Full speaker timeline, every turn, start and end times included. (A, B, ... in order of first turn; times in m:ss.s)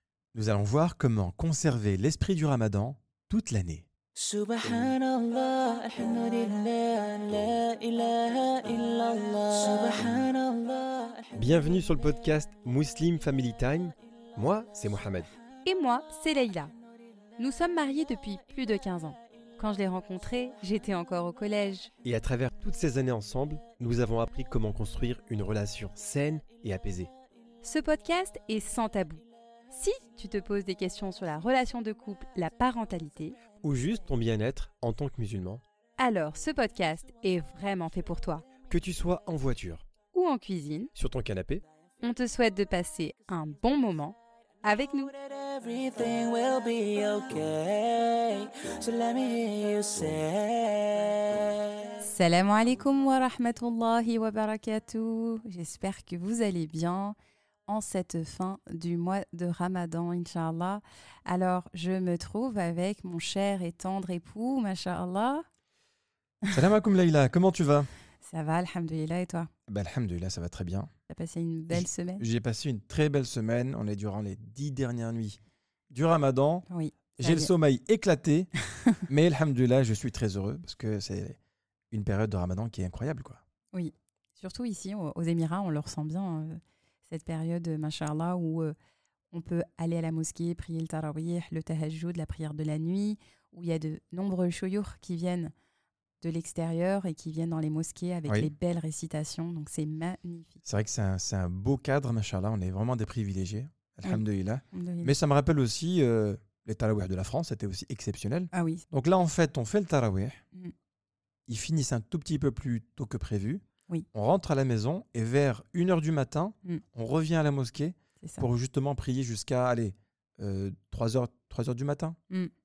0:00.3-0:03.9 A
0:04.1-0:11.4 B
0:11.4-0:15.3 A
0:15.6-0:16.7 C
0:17.4-0:21.9 C
0:22.0-0:27.1 A
0:27.6-0:33.4 C
0:33.6-0:35.6 A
0:36.0-0:38.4 C
0:38.7-0:39.8 A
0:40.1-0:40.9 C
0:40.9-0:41.6 A
0:42.0-0:45.1 C
0:45.2-0:51.6 B
0:52.0-0:57.2 C
0:57.7-1:05.4 C
1:06.5-1:07.9 A
1:08.2-1:09.5 C
1:09.7-1:10.9 A
1:11.1-1:12.2 C
1:11.7-1:16.6 A
1:16.7-1:17.5 C
1:17.2-1:18.5 A
1:19.1-1:21.4 A
1:21.9-1:23.4 A
1:23.7-1:28.7 C
1:29.3-1:35.5 C
1:36.2-1:40.6 C
1:40.6-1:50.4 A
1:44.7-1:45.1 C
1:48.5-1:48.8 C
1:51.5-2:02.2 A